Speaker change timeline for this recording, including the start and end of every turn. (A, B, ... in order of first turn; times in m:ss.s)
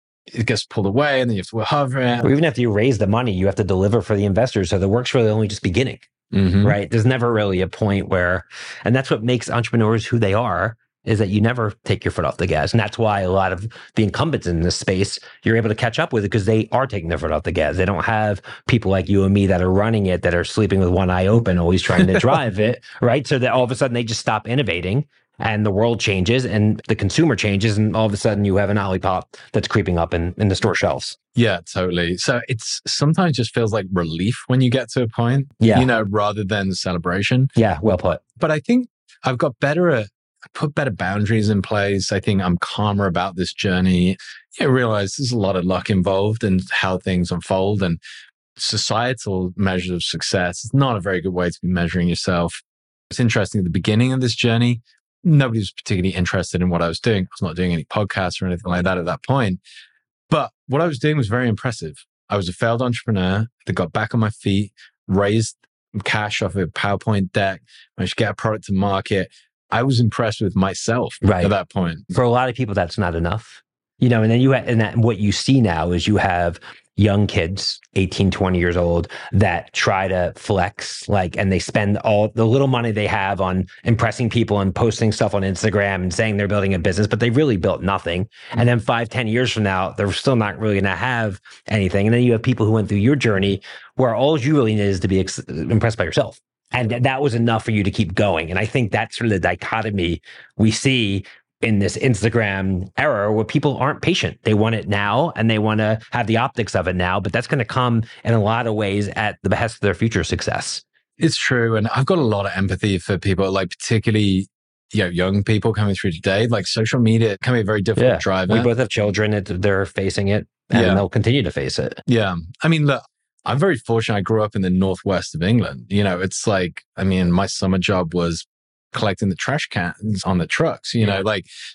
0:00.3-0:02.3 A
0:02.2-0:06.1 B
0:06.3-0:06.8 A
0:06.6-0:31.2 B
0:31.3-0:37.5 A
0:35.6-0:35.9 B
0:37.6-0:38.2 B
0:38.2-0:48.0 A
0:48.6-0:59.6 A
1:00.3-1:12.1 A
1:11.2-1:11.6 B
1:12.1-1:50.8 B
1:51.2-1:58.7 A
1:58.0-2:02.0 B
2:00.7-2:01.0 A
2:02.1-2:11.4 A